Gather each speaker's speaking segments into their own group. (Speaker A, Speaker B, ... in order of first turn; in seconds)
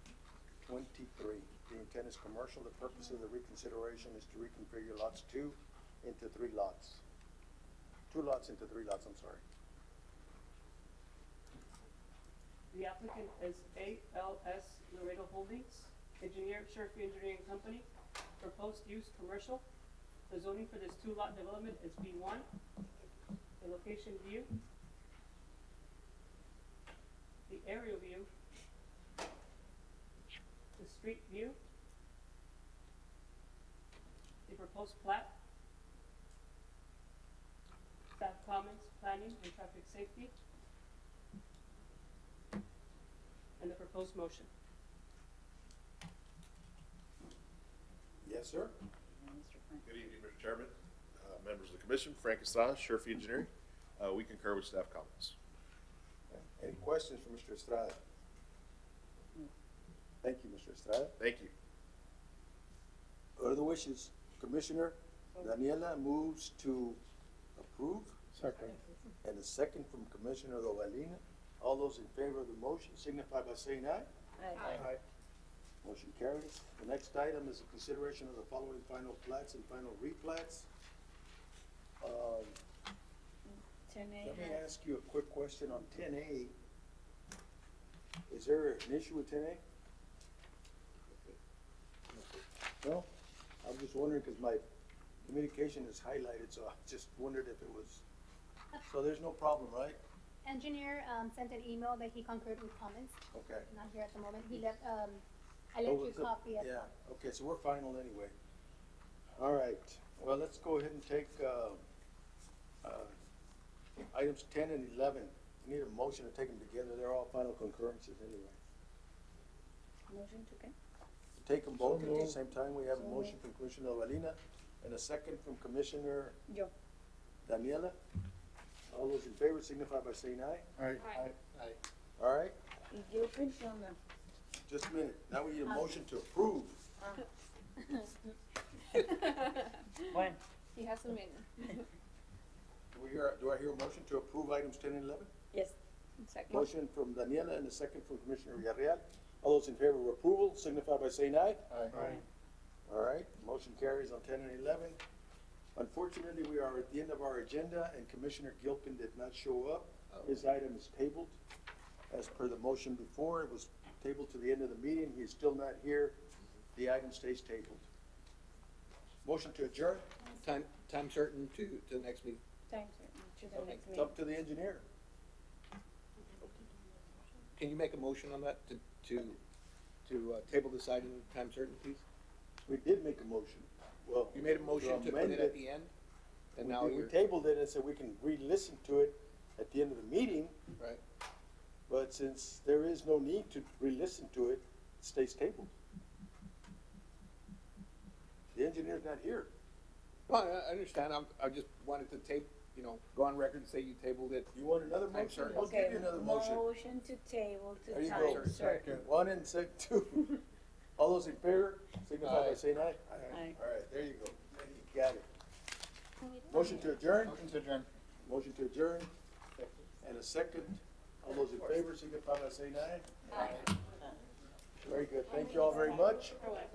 Speaker A: 0.7-7.0, 8.1-9.4, 48.2-48.8, 56.3-58.0, 60.2-61.1, 63.4-67.0, 67.6-68.2, 69.2-74.1, 75.8-80.7, 82.0-82.6, 84.2-86.5, 88.3-89.6, 92.8-93.1, 93.6-94.6, 95.3-98.0, 98.9-100.0, 103.3-103.7, 105.8-108.3, 109.4-111.8, 112.8-113.2, 114.1-118.6, 121.4-126.4, 127.5-128.0, 128.9-130.7, 132.2-132.6, 134.7-136.8, 142.9-145.3, 146.5-152.2, 152.9-155.0, 155.8-161.4, 162.1-166.2, 166.8-167.8, 169.2-170.1, 173.6-174.8, 182.7-185.6, 186.6-190.6, 191.9-195.7, 198.6-199.5, 204.5-206.6, 207.9-210.4, 211.0-215.2, 216.5-217.5, 218.2-219.1, 220.0-223.6, 224.8-226.4
Speaker B: 12.7-17.9, 18.4-19.6, 20.3-22.5, 23.6-24.5, 27.5-28.3, 30.8-31.6, 34.5-35.3, 38.2-40.3, 43.6-44.5
Speaker C: 49.2-49.8, 74.4-74.9, 83.5-84.6, 120.1-120.7, 121.9-123.4, 132.9-134.0, 140.1-140.4, 145.5-146.7, 151.9-152.2, 172.7-174.1, 205.5-209.0, 213.3-213.6, 223.3-224.1
Speaker D: 49.9-55.4, 61.2-61.5, 68.4-68.8, 130.8-131.8, 208.7-209.1, 217.3-217.9
Speaker E: 92.1-92.4, 170.4-172.4, 173.6-173.8, 177.6-179.4, 180.1-182.0, 184.3-185.9, 186.6-187.1, 200.3-204.5, 205.1-205.7, 207.9-208.8, 212.2-212.6
Speaker F: 100.5-103.2, 103.7-105.2, 105.7-106.7
Speaker G: 131.0-131.3, 139.1-139.7, 140.7-141.8